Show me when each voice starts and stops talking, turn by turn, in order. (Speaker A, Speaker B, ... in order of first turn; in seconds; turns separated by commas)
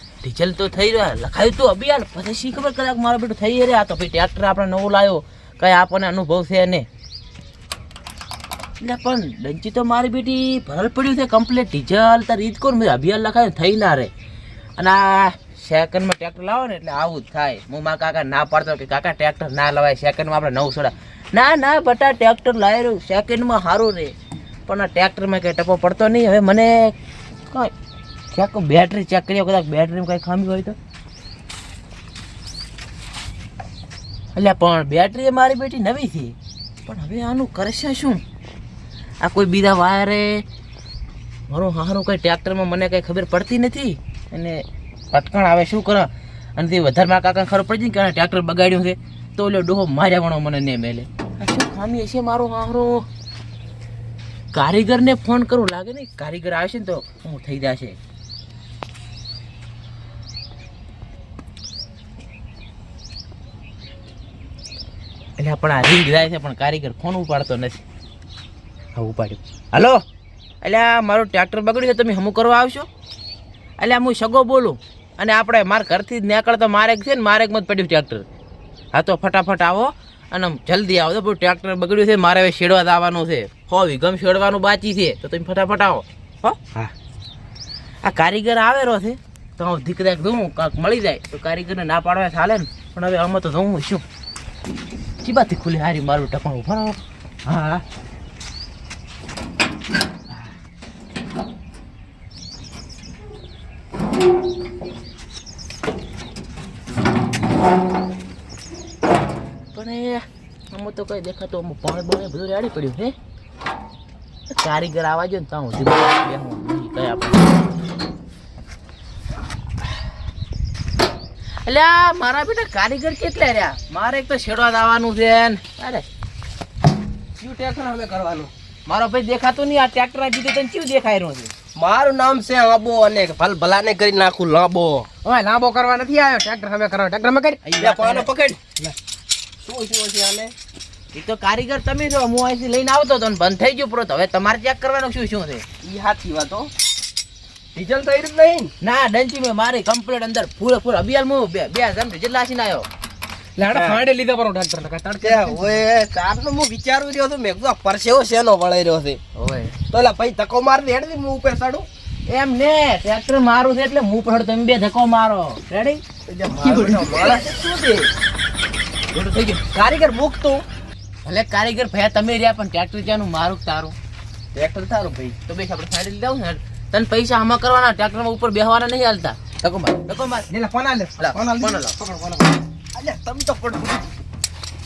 Speaker A: 0.2-6.8, Speaker A: 8.8-14.1, Speaker A: 14.8-24.1, Speaker A: 24.7-26.9, Speaker A: 28.3-30.8, Speaker A: 34.3-38.2, Speaker A: 39.2-40.4, Speaker A: 41.5-53.0, Speaker A: 54.5-58.0, Speaker A: 65.4-67.8, Speaker A: 68.9-70.0, Speaker A: 70.6-72.9, Speaker A: 73.8-78.2, Speaker A: 78.9-86.9, Speaker A: 88.0-94.0, Speaker A: 95.2-97.8, Speaker A: 109.7-113.1, Speaker A: 114.5-117.5, Speaker A: 121.7-126.0, Speaker B: 127.4-128.5, Speaker A: 128.9-131.5, Speaker B: 131.8-135.1, Speaker C: 135.2-137.6, Speaker A: 137.6-138.3, Speaker B: 137.8-138.6, Speaker B: 139.6-140.5, Speaker A: 141.1-145.6, Speaker B: 145.8-146.7, Speaker B: 147.7-148.7, Speaker A: 148.8-152.9, Speaker C: 153.6-155.7, Speaker B: 153.7-154.0, Speaker B: 155.2-159.2, Speaker A: 159.4-159.7, Speaker B: 159.9-161.9, Speaker A: 162.3-166.0, Speaker B: 166.3-168.1, Speaker C: 166.7-167.3, Speaker A: 169.1-169.6, Speaker B: 169.7-170.6, Speaker A: 171.2-173.9, Speaker B: 174.5-175.3, Speaker A: 175.4-180.5, Speaker C: 180.5-182.5, Speaker A: 181.2-181.9, Speaker B: 182.9-184.1